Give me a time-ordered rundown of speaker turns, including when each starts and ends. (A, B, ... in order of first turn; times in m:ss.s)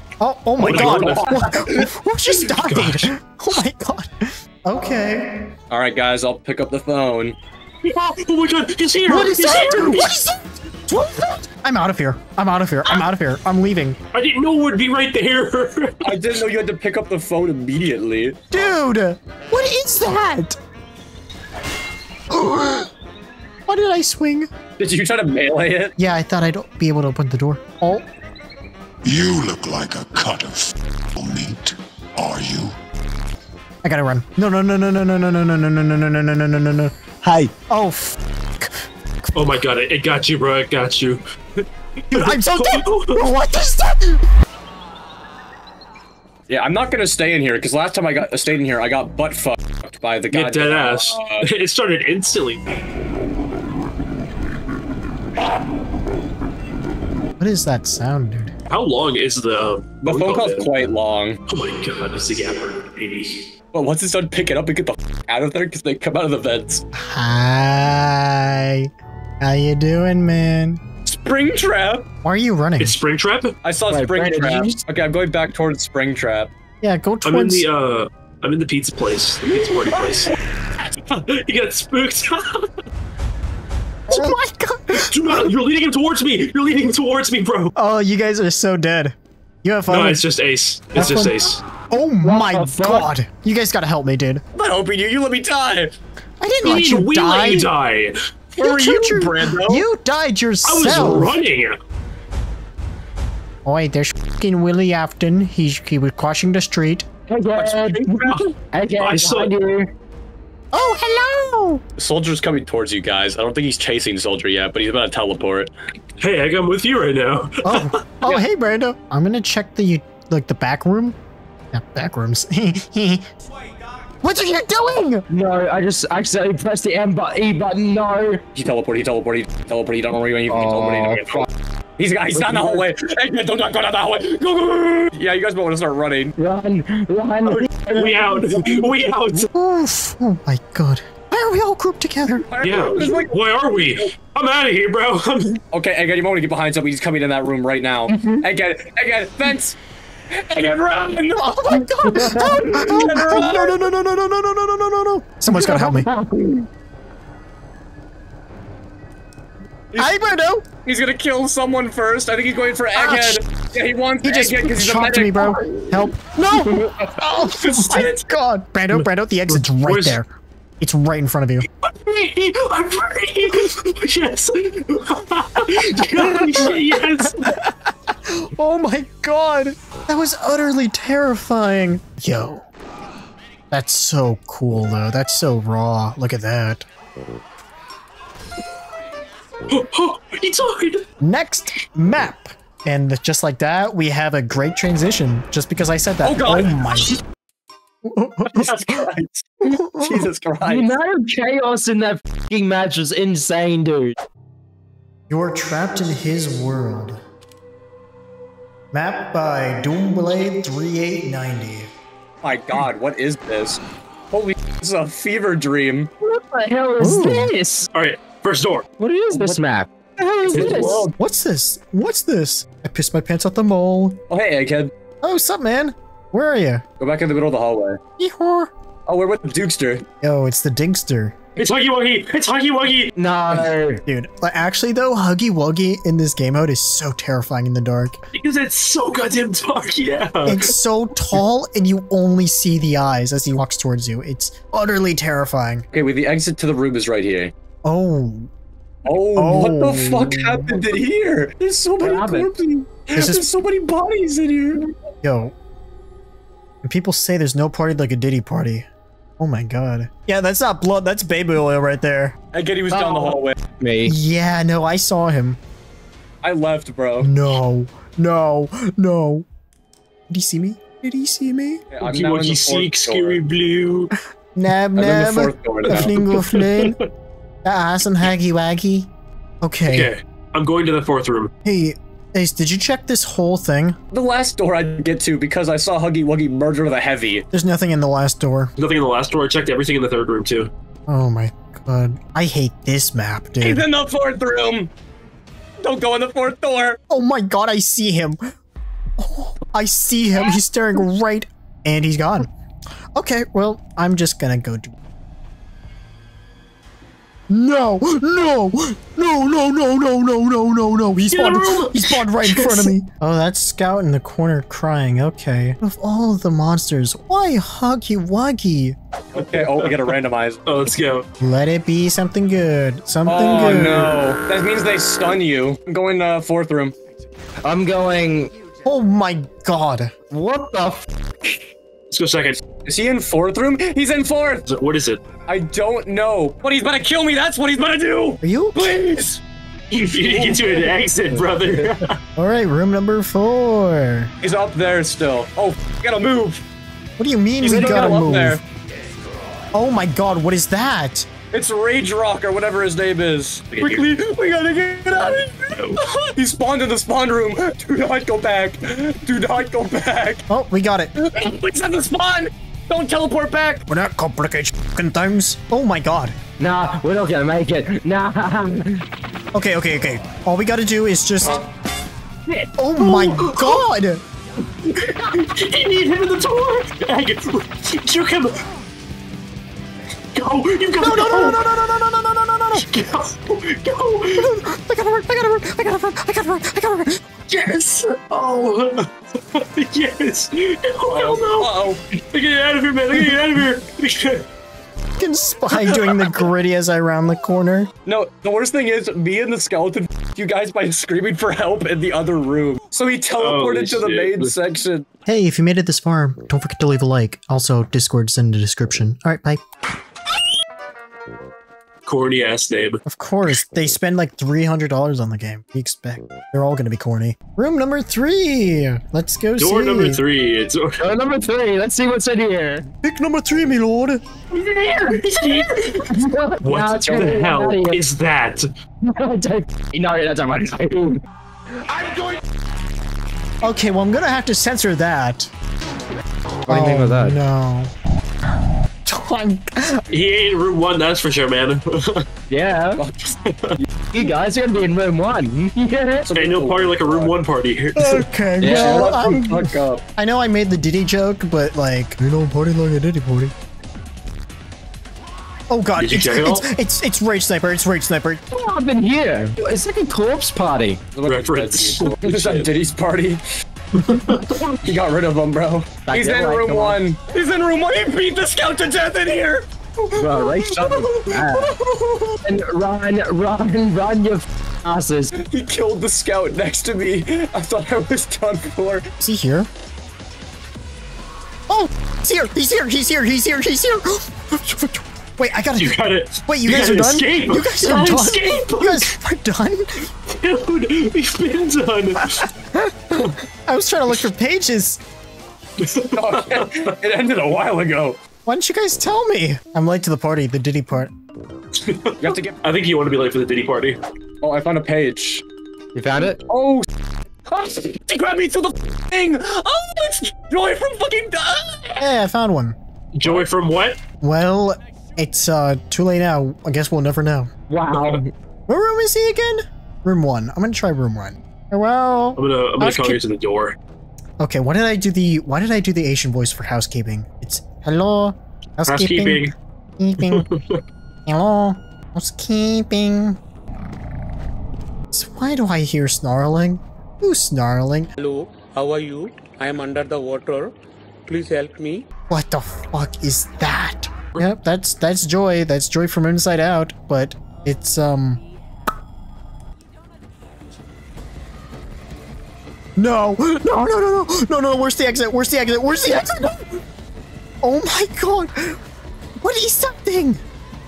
0:00.2-0:05.4 A
0:00.6-0:01.7 B
0:00.6-0:03.1 C
0:05.7-0:07.4 B
0:07.8-0:10.1 C
0:09.1-0:14.0 A
0:14.1-0:16.2 C
0:16.0-0:18.5 B
0:18.5-0:20.6 A
0:22.3-0:22.9 A
0:23.7-0:24.5 A
0:24.8-0:25.9 B
0:26.0-0:28.0 A
0:29.0-0:32.7 D
0:33.8-0:38.7 A
0:39.3-0:43.3 C
0:42.1-0:44.2 A
0:46.5-0:51.4 B
0:50.3-0:52.6 C
0:57.4-0:58.5 A
0:58.7-1:00.8 C
1:00.0-1:01.4 B
1:01.5-1:03.4 C
1:03.7-1:06.8 B
1:06.9-1:08.9 A
1:09.4-1:10.8 A
1:11.0-1:12.1 B
1:12.2-1:13.0 A
1:12.8-1:13.5 C
1:13.6-1:16.5 B
1:13.9-1:14.8 E
1:16.8-1:17.7 A
1:17.2-1:20.3 C
1:19.5-1:20.2 B
1:21.1-1:22.7 C
1:24.1-1:25.4 A
1:25.0-1:27.7 C
1:27.8-1:30.2 A
1:29.9-1:31.6 C
1:30.9-1:34.4 A
1:32.2-1:33.1 E
1:34.5-1:36.0 B
1:36.4-1:37.7 A
1:36.6-1:38.2 C
1:38.6-1:39.8 B
1:38.6-1:41.4 A
1:40.6-1:41.8 C
1:40.9-1:41.3 E
1:43.6-1:47.1 A
1:47.3-1:49.9 E
1:47.5-1:48.4 B
1:49.0-1:49.5 C
1:50.7-1:51.8 A
1:52.0-1:55.7 B
1:56.2-1:57.9 C
1:57.6-2:01.2 A
2:01.7-2:03.2 A
2:04.2-2:05.2 A
2:05.3-2:08.4 E
2:08.5-2:11.4 B
2:10.5-2:11.5 E
2:12.0-2:16.3 B
2:12.3-2:12.8 E
2:16.4-2:18.6 E
2:17.4-2:18.1 B
2:17.9-2:19.5 C
2:19.3-2:22.4 A
2:22.5-2:23.4 B
2:22.6-2:25.6 C
2:25.7-2:29.8 B
2:28.1-2:28.4 E
2:30.3-2:31.5 B
2:31.3-2:36.1 A
2:32.0-2:33.1 E
2:32.1-2:33.8 B
2:35.5-2:36.6 E
2:40.0-2:40.7 A
2:40.8-2:45.6 B
2:42.9-2:43.4 A
2:44.2-2:50.3 A
2:47.5-2:48.2 B
2:49.0-2:50.2 C
2:50.8-2:51.6 A
2:51.8-2:57.5 C
2:56.1-3:02.6 A
3:03.7-3:06.8 A
3:09.7-3:11.0 C
3:11.2-3:17.2 A
3:16.2-3:17.2 B
3:18.0-3:19.1 A
3:18.6-3:20.9 B
3:19.6-3:20.2 A
3:20.6-3:24.1 E
3:25.3-3:27.2 A
3:28.9-3:31.9 A
3:32.4-3:33.8 B
3:34.3-3:36.1 B
3:36.2-3:37.9 E
3:37.0-3:37.5 A
3:37.9-3:38.9 C
3:39.0-3:41.0 E
3:39.3-3:39.6 B
3:40.4-3:41.1 B
3:40.5-3:41.0 C
3:41.1-3:44.2 A
3:44.3-3:44.9 B
3:45.2-3:46.8 A
3:47.0-3:48.0 B
3:48.2-3:48.7 A
3:49.0-3:50.0 B
3:50.2-3:51.4 A
3:51.6-3:53.1 C
3:53.2-3:54.0 E
3:54.0-3:58.2 A
3:58.3-4:00.7 C
4:00.4-4:05.8 A
4:05.9-4:07.5 B
4:07.8-4:08.5 A
4:09.0-4:14.9 B
4:09.3-4:10.7 A
4:12.0-4:12.5 E
4:13.1-4:13.4 A
4:15.2-4:15.5 A
4:16.8-4:18.8 A
4:19.4-4:22.4 A
4:22.5-4:23.6 B
4:22.9-4:24.2 E
4:24.0-4:25.6 A
4:26.4-4:27.3 B
4:27.2-4:29.4 A
4:30.3-4:31.8 A
4:31.9-4:33.4 B
4:32.0-4:34.1 C
4:34.5-4:37.0 A
4:35.0-4:36.1 B
4:35.9-4:37.0 C
4:37.6-4:39.1 A
4:39.6-4:40.1 A
4:39.8-4:41.5 C
4:41.6-4:44.0 A
4:44.1-4:47.4 B
4:47.5-4:48.7 A
4:48.8-4:50.7 C
4:51.1-4:53.9 A
4:53.6-4:54.9 B
4:55.8-4:57.0 B
4:57.1-4:58.4 A
4:59.2-5:02.5 A
5:03.1-5:04.9 A
5:07.5-5:19.0 A
5:11.3-5:12.9 C
5:19.3-5:20.6 B
5:19.4-5:20.1 C
5:20.6-5:21.2 C
5:21.4-5:24.2 A
5:23.2-5:26.9 B
5:27.6-5:28.5 E
5:28.8-5:30.1 A
5:30.3-5:31.6 E
5:32.1-5:32.6 C
5:32.8-5:34.6 B
5:34.6-5:35.2 C
5:35.4-5:39.4 B
5:38.4-5:39.0 A
5:39.9-5:42.2 C
5:40.1-5:40.9 B
5:42.4-5:44.3 A
5:44.4-5:46.6 B
5:47.2-5:48.6 A
5:47.6-5:48.6 B
5:49.7-5:51.3 A
5:51.5-6:00.4 B
5:53.7-5:54.1 C
6:00.5-6:01.1 A
6:01.2-6:03.8 B
6:03.9-6:06.4 A
6:06.6-6:09.0 E
6:09.5-6:11.6 A
6:12.8-6:14.2 A
6:13.0-6:13.8 C
6:14.8-6:18.6 C
6:20.3-6:21.6 C
6:21.0-6:22.9 A
6:22.8-6:24.5 C
6:24.4-6:27.6 A
6:27.6-6:34.4 C
6:31.1-6:32.0 B
6:35.2-6:37.9 A
6:38.0-6:45.1 B
6:43.4-6:44.5 C
6:45.2-6:49.6 A
6:52.0-6:53.0 C
6:53.0-7:00.2 A
6:59.6-7:01.0 C
7:01.0-7:02.8 E
7:03.0-7:04.2 A
7:04.5-7:08.7 C
7:06.0-7:08.0 E
7:07.1-7:07.4 B
7:09.0-7:11.2 E
7:13.6-7:15.5 A
7:16.6-7:17.4 E
7:16.7-7:17.9 A
7:19.0-7:20.0 A
7:20.1-7:22.2 C
7:22.5-7:23.0 E
7:23.0-7:23.8 B
7:23.5-7:23.7 C
7:24.1-7:26.3 E
7:26.2-7:27.4 B
7:26.3-7:28.3 C
7:28.0-7:33.5 A
7:28.6-7:29.2 E
7:28.6-7:30.0 B
7:35.7-7:38.4 A
7:36.0-7:36.6 C
7:38.5-7:41.0 E
7:41.1-7:43.4 B
7:41.2-7:42.7 C
7:43.9-7:44.5 C
7:44.4-7:44.8 E
7:44.8-7:49.7 B
7:46.0-7:47.0 E
7:50.1-7:51.7 E
7:50.6-7:51.1 B
7:52.4-7:55.3 E
7:55.4-7:59.1 B
7:59.2-7:59.7 A
8:01.7-8:10.1 A
8:05.8-8:09.1 C
8:10.3-8:12.5 C
8:12.3-8:15.0 A
8:15.9-8:16.9 C
8:16.1-8:18.2 B
8:18.4-8:21.1 A
8:21.8-8:24.0 C
8:22.2-8:22.6 B
8:24.4-8:25.4 B
8:25.9-8:26.4 E
8:26.5-8:32.0 B
8:32.0-8:32.8 A
8:33.2-8:34.0 C
8:34.2-8:37.5 A
8:37.7-8:38.3 E
8:37.9-8:38.2 C
8:38.7-8:43.2 A
8:42.4-8:43.8 C
8:44.4-8:50.5 A
8:48.9-8:49.5 C
8:50.2-8:50.8 C
8:51.3-8:53.4 A
8:55.1-8:58.1 A
8:58.2-9:00.7 F
9:01.2-9:02.0 F
9:02.3-9:08.4 A
9:13.0-9:16.8 A
9:17.6-9:18.8 A
9:19.4-9:20.4 A